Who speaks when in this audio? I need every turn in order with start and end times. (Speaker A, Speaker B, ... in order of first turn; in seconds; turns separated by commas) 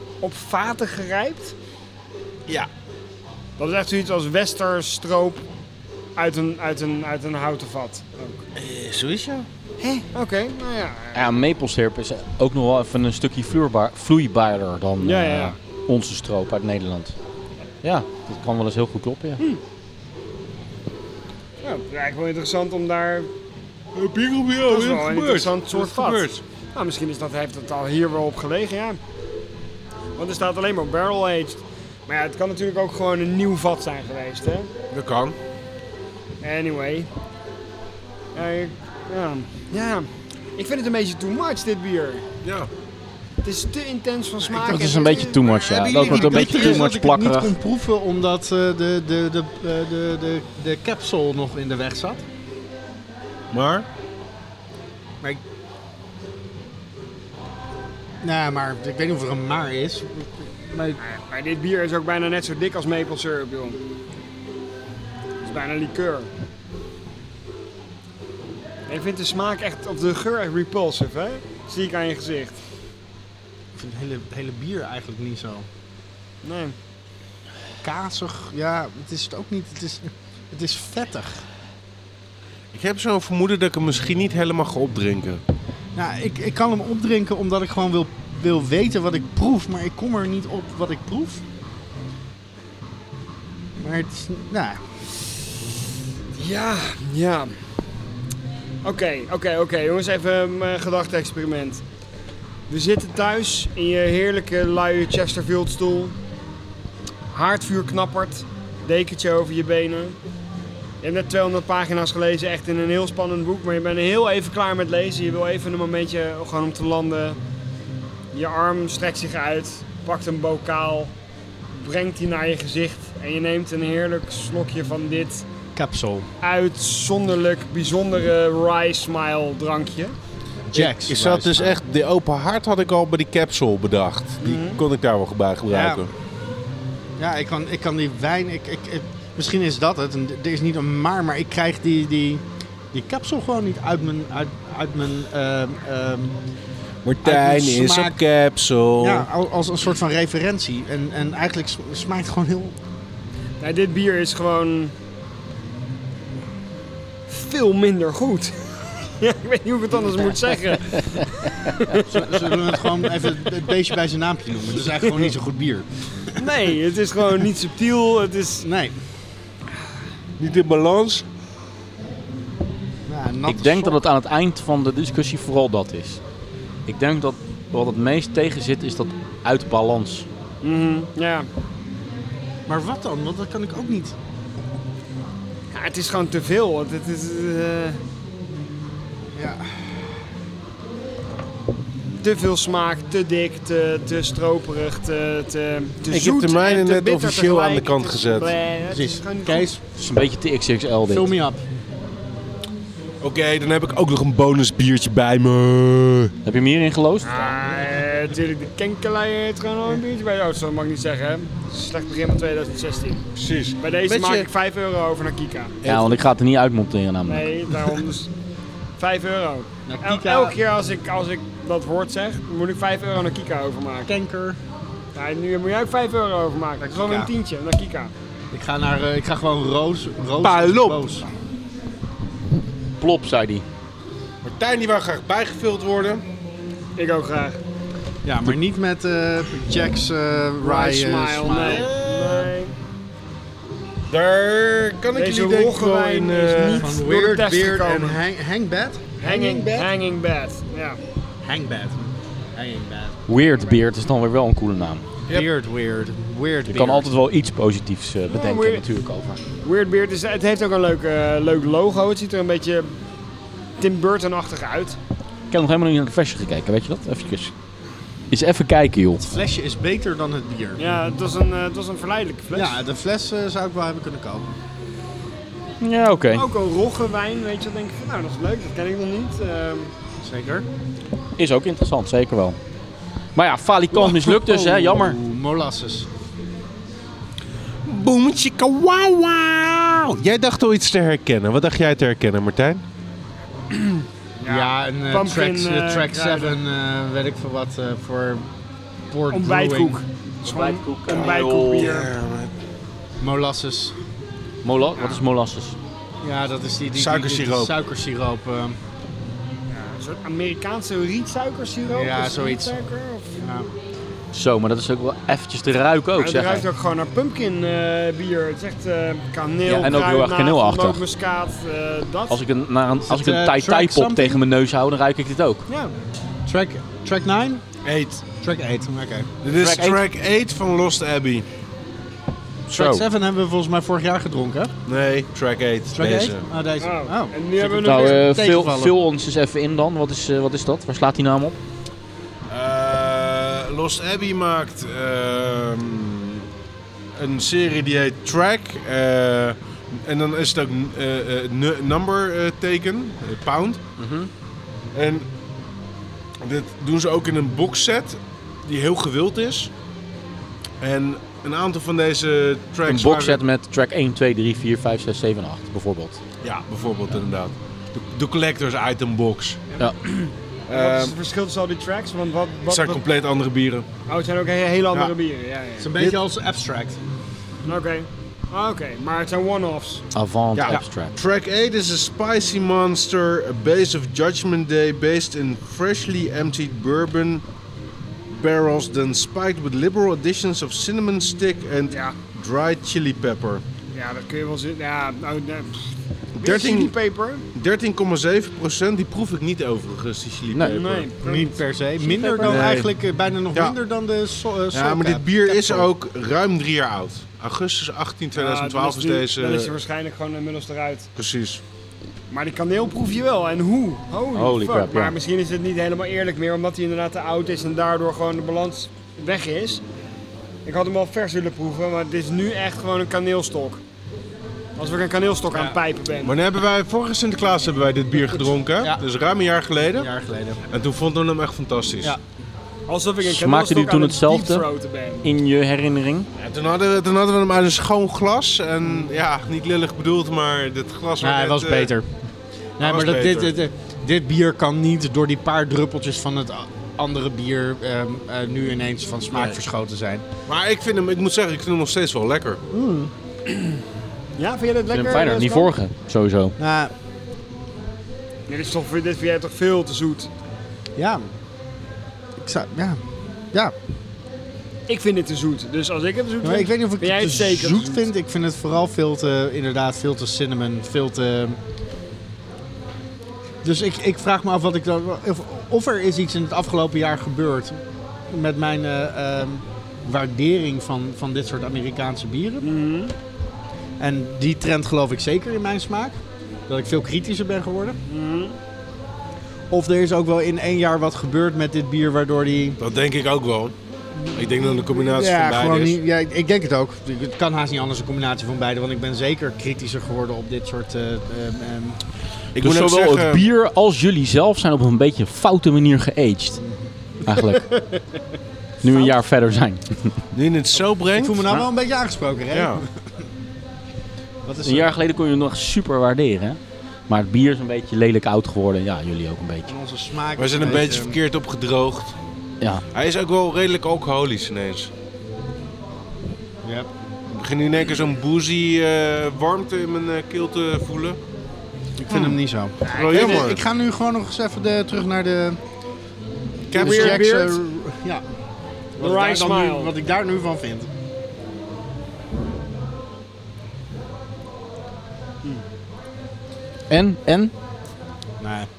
Speaker A: 0.2-1.5, Speaker A: 3.6-5.4, Speaker A: 6.2-8.4, Speaker B: 8.6-9.5, Speaker A: 9.8-11.2, Speaker C: 11.1-17.1, Speaker A: 15.0-15.6, Speaker C: 17.8-19.4, Speaker A: 21.6-23.3, Speaker B: 23.9-26.4, Speaker A: 24.6-29.0, Speaker A: 30.2-34.7, Speaker B: 34.9-35.4, Speaker A: 36.4-37.1, Speaker A: 38.3-42.2, Speaker B: 42.4-42.7, Speaker A: 43.4-45.5, Speaker D: 44.4-44.9, Speaker C: 44.6-47.5, Speaker B: 45.4-46.8, Speaker D: 45.9-52.2, Speaker B: 53.5-53.9, Speaker D: 58.2-61.0, Speaker A: 61.0-63.8, Speaker A: 65.4-66.3, Speaker A: 68.9-72.5, Speaker D: 73.8-75.7, Speaker A: 76.4-76.7, Speaker D: 77.8-81.4, Speaker B: 82.7-85.4, Speaker D: 86.0-91.4, Speaker D: 93.8-94.9, Speaker A: 96.3-97.5, Speaker A: 98.8-101.8, Speaker A: 102.7-106.1, Speaker A: 107.3-110.2, Speaker A: 111.0-117.4, Speaker A: 118.3-121.1, Speaker A: 121.8-125.5, Speaker D: 125.8-126.3, Speaker A: 126.4-130.1, Speaker D: 130.7-131.8, Speaker B: 130.7-136.1, Speaker A: 134.4-134.8, Speaker D: 135.7-136.0, Speaker D: 137.2-146.4, Speaker B: 147.0-149.3, Speaker D: 147.2-148.2, Speaker D: 149.0-152.7, Speaker A: 153.6-154.9, Speaker A: 157.3-158.5, Speaker A: 159.1-163.2, Speaker D: 162.1-165.9, Speaker A: 165.1-165.3, Speaker A: 166.4-168.7, Speaker D: 168.6-169.0, Speaker B: 170.4-171.2, Speaker D: 173.1-174.0, Speaker C: 173.5-176.2, Speaker C: 176.9-180.2, Speaker A: 180.6-181.5, Speaker D: 182.7-184.2, Speaker A: 185.7-188.0, Speaker D: 189.4-189.7, Speaker A: 192.2-199.7, Speaker B: 196.1-198.5, Speaker D: 198.9-199.8, Speaker C: 200.0-201.3, Speaker D: 201.1-201.6, Speaker B: 203.2-206.3, Speaker C: 206.4-207.5, Speaker A: 207.2-213.3, Speaker B: 213.4-214.5, Speaker A: 213.8-215.8, Speaker B: 215.8-216.2, Speaker C: 215.8-217.5, Speaker A: 217.2-218.3, Speaker A: 219.0-224.1, Speaker D: 219.9-220.6, Speaker D: 224.1-224.6, Speaker A: 225.1-228.1, Speaker D: 226.8-227.3, Speaker D: 228.5-231.2, Speaker B: 230.4-231.0, Speaker C: 233.0-233.6, Speaker B: 234.4-236.2, Speaker A: 237.0-237.6, Speaker D: 238.2-241.9, Speaker A: 240.6-242.7, Speaker B: 241.5-242.5, Speaker B: 244.1-247.0, Speaker A: 245.1-248.2, Speaker D: 246.8-249.9, Speaker A: 249.2-251.0, Speaker D: 251.4-253.2, Speaker C: 253.3-255.1, Speaker D: 255.3-257.1, Speaker C: 256.7-259.4, Speaker A: 258.3-258.8, Speaker A: 259.6-262.9, Speaker A: 263.8-265.0, Speaker C: 265.5-267.5, Speaker C: 268.3-269.2, Speaker D: 269.2-270.8, Speaker A: 270.8-272.8, Speaker D: 272.5-274.5, Speaker C: 275.8-276.4, Speaker A: 276.3-279.9, Speaker D: 280.2-280.6, Speaker C: 281.4-282.6, Speaker C: 283.4-285.2, Speaker D: 283.9-286.1, Speaker B: 287.8-292.8, Speaker A: 293.7-296.6, Speaker D: 294.4-298.4, Speaker D: 299.1-300.0, Speaker A: 299.3-302.1, Speaker C: 300.4-301.9, Speaker B: 301.1-302.5, Speaker D: 303.2-303.9, Speaker C: 304.6-305.8, Speaker D: 306.2-308.8, Speaker B: 306.9-307.7, Speaker A: 309.7-313.4, Speaker D: 311.9-312.7, Speaker D: 313.4-313.7, Speaker C: 314.3-316.6, Speaker A: 316.2-322.4, Speaker C: 319.7-321.0, Speaker C: 322.3-325.7, Speaker D: 323.0-324.4, Speaker D: 326.5-327.6, Speaker B: 327.8-328.3, Speaker D: 328.3-329.3, Speaker B: 329.4-331.5, Speaker C: 329.5-330.0, Speaker C: 332.7-333.0, Speaker D: 332.7-334.7, Speaker B: 334.9-336.4, Speaker D: 335.9-338.9, Speaker A: 336.8-338.3, Speaker C: 337.8-341.6, Speaker B: 342.5-346.4, Speaker B: 347.1-353.8, Speaker C: 354.0-354.3, Speaker B: 354.9-355.3, Speaker B: 356.4-359.7, Speaker B: 360.8-363.4, Speaker C: 362.8-366.2, Speaker B: 366.4-369.6, Speaker A: 369.7-373.0, Speaker B: 370.7-371.1, Speaker B: 372.7-373.9, Speaker A: 374.1-375.9, Speaker D: 375.8-377.0, Speaker A: 377.7-380.0, Speaker C: 380.1-381.1, Speaker B: 380.6-387.4, Speaker B: 388.3-393.6, Speaker A: 391.9-392.1, Speaker A: 393.9-395.9, Speaker B: 396.4-396.9, Speaker A: 396.4-397.4, Speaker B: 397.5-401.1, Speaker C: 400.5-401.0, Speaker A: 400.6-401.6, Speaker D: 401.2-405.9, Speaker C: 402.0-402.9, Speaker B: 402.4-402.8, Speaker B: 403.5-403.8, Speaker B: 404.7-409.7, Speaker A: 408.3-411.1, Speaker B: 411.1-411.6, Speaker A: 412.3-419.8, Speaker C: 414.3-415.1, Speaker A: 420.6-423.8, Speaker A: 424.8-426.4, Speaker B: 426.2-430.1, Speaker D: 429.9-430.6, Speaker B: 430.7-432.1, Speaker A: 432.9-435.3, Speaker C: 433.2-434.7, Speaker C: 435.2-436.3, Speaker B: 436.4-441.9, Speaker D: 441.2-442.1, Speaker D: 442.8-450.2, Speaker B: 442.8-443.6, Speaker B: 450.5-452.6, Speaker D: 452.7-453.1, Speaker A: 454.4-455.7, Speaker C: 454.9-456.5, Speaker D: 456.6-456.9, Speaker A: 458.5-460.3, Speaker D: 460.9-461.3, Speaker D: 462.4-463.0, Speaker A: 464.9-468.1, Speaker D: 466.4-471.6, Speaker D: 473.6-482.7, Speaker A: 482.6-483.1, Speaker D: 484.0-486.2, Speaker D: 486.7-488.0, Speaker A: 488.1-488.6, Speaker D: 489.7-492.8, Speaker B: 492.8-493.7, Speaker A: 494.1-495.0, Speaker B: 494.3-496.0, Speaker D: 495.1-502.0, Speaker B: 502.5-503.4, Speaker C: 502.6-506.6, Speaker D: 506.6-506.9, Speaker C: 507.2-507.6, Speaker A: 507.5-508.0, Speaker C: 508.8-510.1, Speaker B: 510.3-511.7, Speaker D: 511.1-512.9, Speaker B: 512.5-512.8, Speaker D: 514.4-514.9, Speaker C: 514.6-519.7, Speaker D: 519.7-521.2, Speaker B: 520.4-522.1, Speaker B: 522.9-524.9, Speaker D: 526.6-526.9, Speaker B: 527.3-531.2, Speaker D: 532.0-535.6, Speaker B: 532.1-533.6, Speaker A: 532.8-533.5, Speaker B: 536.7-537.3, Speaker D: 536.7-538.2, Speaker A: 536.8-537.6, Speaker D: 539.0-540.9, Speaker A: 539.0-539.9, Speaker C: 546.9-547.5, Speaker D: 548.4-548.7